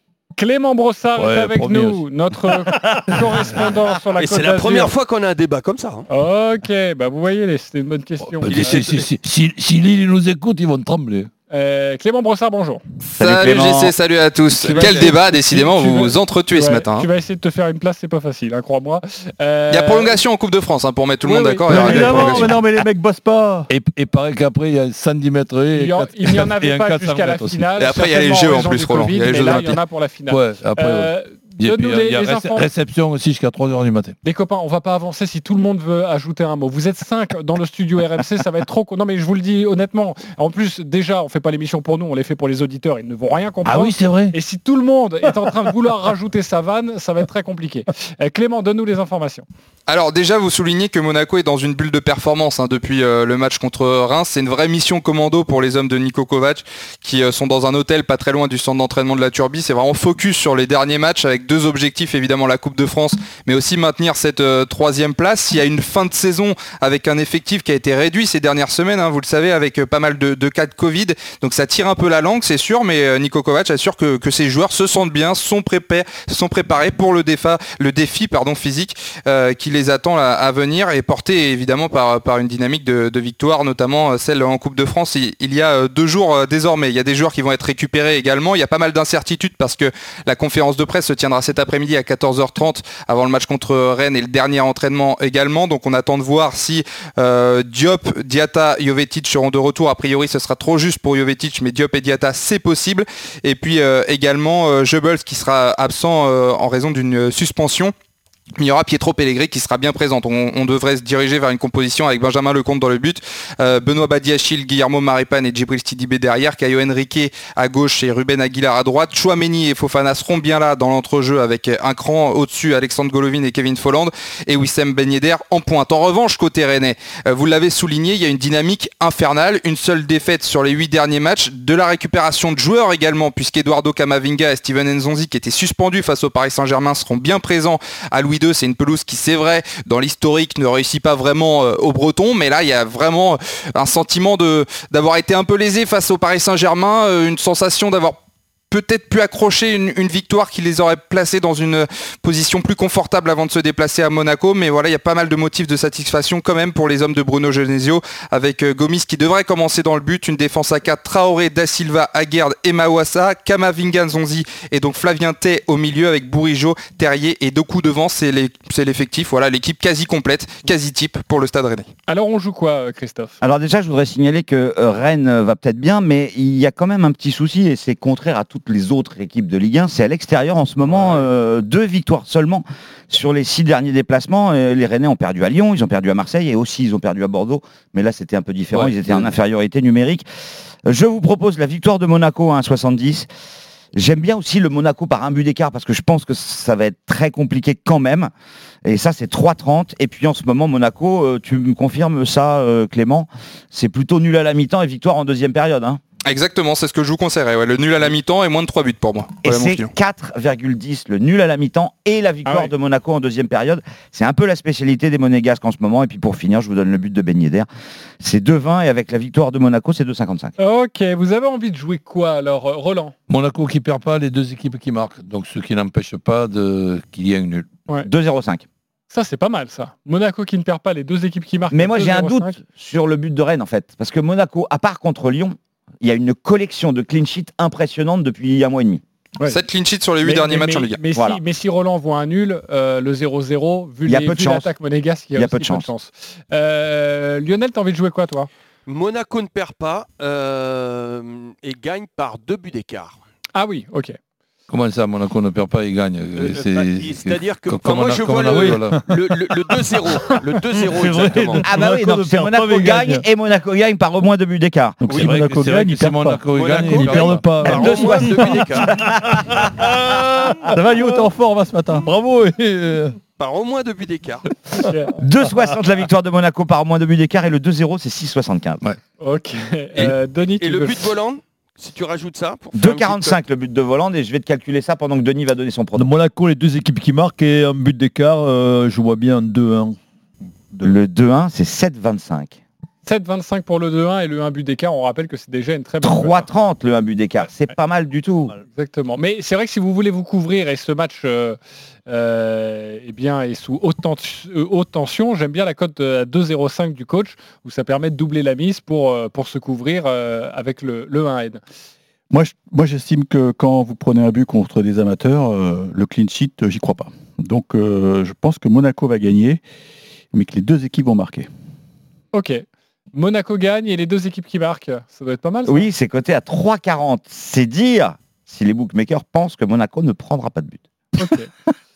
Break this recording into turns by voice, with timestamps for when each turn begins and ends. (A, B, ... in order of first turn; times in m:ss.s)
0:00.4-0:04.9 A
0:01.2-0:02.0 B
0:04.2-0:06.1 C
0:06.1-0:08.9 A
0:08.4-0:11.3 B
0:08.5-0:09.0 C
0:11.5-0:12.8 A
0:13.2-0:17.1 D
0:13.2-0:13.9 E
0:14.6-0:20.2 A
0:19.7-0:22.6 D
0:21.2-0:22.5 A
0:21.7-0:23.7 F
0:21.7-0:22.5 B
0:23.7-0:27.9 B
0:25.8-0:32.7 A
0:27.8-0:29.8 D
0:29.4-0:29.7 B
0:30.3-0:34.2 B
0:34.2-0:49.4 A
0:43.6-0:44.4 B
0:49.9-1:47.9 D
1:48.6-2:28.2 D
2:28.7-2:51.9 D
2:52.1-2:53.4 A
2:53.4-3:10.2 E
3:08.7-3:09.3 B
3:10.8-3:13.3 E
3:13.9-3:18.3 E
3:18.8-3:26.0 E
3:26.3-3:29.9 D
3:29.4-3:37.7 E
3:32.5-3:32.7 A
3:38.2-3:40.5 E
3:40.6-3:43.2 A
3:43.3-3:47.7 B
3:48.0-3:48.6 E
3:49.1-3:52.6 A
3:51.7-3:59.0 E
3:59.5-4:01.0 D
4:00.2-4:08.5 A
4:01.1-4:01.4 E
4:04.1-4:04.7 E
4:05.4-4:05.9 E
4:08.9-4:13.2 C
4:13.6-4:14.2 A
4:14.7-4:19.0 B
4:16.4-4:21.7 C
4:18.5-4:18.8 G
4:20.8-4:23.2 G
4:21.6-4:25.0 E
4:25.0-4:26.4 F
4:25.1-4:27.8 B
4:26.5-4:28.9 C
4:26.8-4:31.3 G
4:27.6-4:29.8 E
4:30.7-4:32.1 F
4:32.0-4:33.2 G
4:33.4-4:34.5 C
4:34.7-4:35.2 A
4:35.2-4:38.8 E
4:39.2-4:41.0 A
4:40.0-4:43.4 C
4:42.8-4:46.1 E
4:46.0-4:50.0 G
4:50.7-4:51.0 G
4:50.8-4:52.6 E
4:53.0-4:56.4 A
4:56.0-4:58.5 E
4:58.8-5:11.6 A
5:12.3-5:19.6 F
5:20.3-5:21.5 F
5:22.3-5:25.9 A
5:25.7-5:30.8 E
5:31.2-5:31.5 A